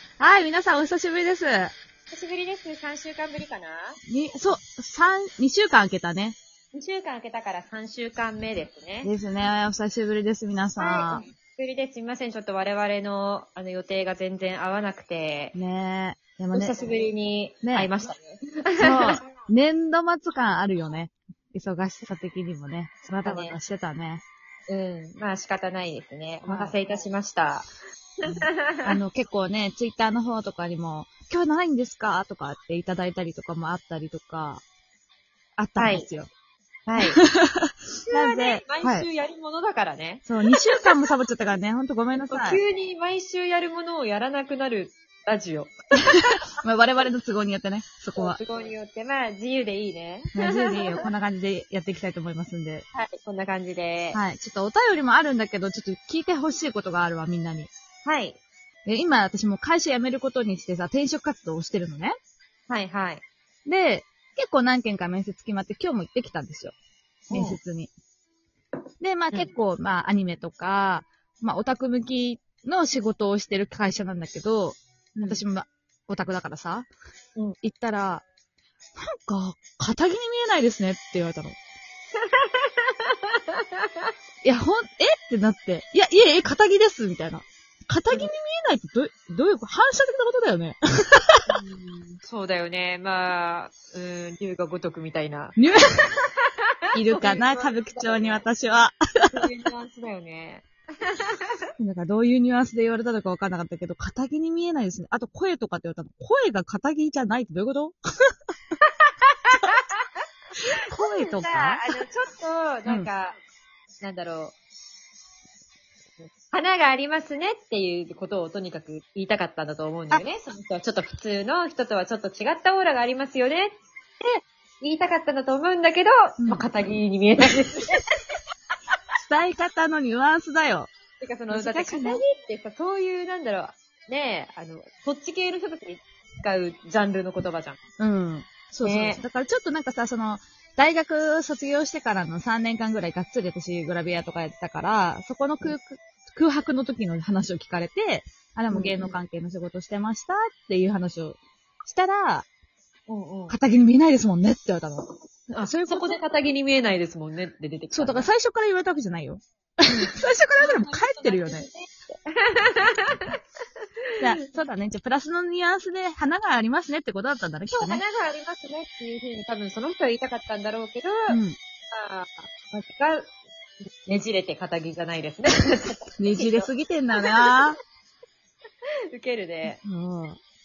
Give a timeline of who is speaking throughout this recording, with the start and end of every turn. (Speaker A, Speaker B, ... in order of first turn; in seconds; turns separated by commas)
Speaker A: 0.2-1.7, Speaker B: 2.1-4.0, Speaker A: 4.1-6.4, Speaker B: 6.7-9.1, Speaker A: 9.0-11.2, Speaker B: 10.8-15.6, Speaker A: 15.6-16.9, Speaker B: 16.5-19.2, Speaker A: 17.6-17.9, Speaker A: 18.8-24.2, Speaker B: 23.2-23.6, Speaker B: 24.7-27.7, Speaker A: 26.4-26.8, Speaker B: 28.2-28.9, Speaker A: 28.2-34.6, Speaker A: 35.6-36.3, Speaker B: 35.8-36.1, Speaker B: 36.9-37.2, Speaker A: 37.0-39.1, Speaker B: 38.1-40.9, Speaker A: 40.3-42.6, Speaker B: 42.2-46.4, Speaker A: 46.6-48.4, Speaker B: 48.2-51.1, Speaker A: 50.4-52.9, Speaker B: 52.9-54.2, Speaker A: 54.1-57.7, Speaker B: 58.0-58.4, Speaker A: 58.9-62.1, Speaker B: 62.7-63.2, Speaker A: 63.7-66.7, Speaker B: 67.3-67.6, Speaker A: 67.3-67.9, Speaker A: 69.0-76.9, Speaker A: 77.6-78.2, Speaker A: 79.0-81.6, Speaker B: 82.2-84.1, Speaker A: 84.4-91.5, Speaker B: 91.5-95.6, Speaker A: 95.6-96.1, Speaker B: 96.2-98.4, Speaker A: 96.9-99.5, Speaker B: 99.3-101.6, Speaker A: 101.8-108.0, Speaker B: 108.8-110.0, Speaker A: 110.8-112.0, Speaker B: 110.9-113.4, Speaker B: 114.0-114.5, Speaker B: 116.5-128.0, Speaker A: 126.4-126.7, Speaker A: 129.2-130.9, Speaker B: 131.2-137.8, Speaker A: 131.5-132.2, Speaker A: 138.0-152.5, Speaker B: 138.8-139.2, Speaker B: 148.7-149.2, Speaker B: 153.1-153.6, Speaker A: 153.5-156.2, Speaker B: 155.5-158.3, Speaker A: 157.9-161.7, Speaker B: 159.9-163.4, Speaker A: 164.2-168.0, Speaker B: 167.7-171.4, Speaker A: 171.3-171.6, Speaker B: 171.9-173.3, Speaker B: 174.1-177.6, Speaker A: 176.2-177.8, Speaker B: 179.1-179.8, Speaker A: 179.8-180.4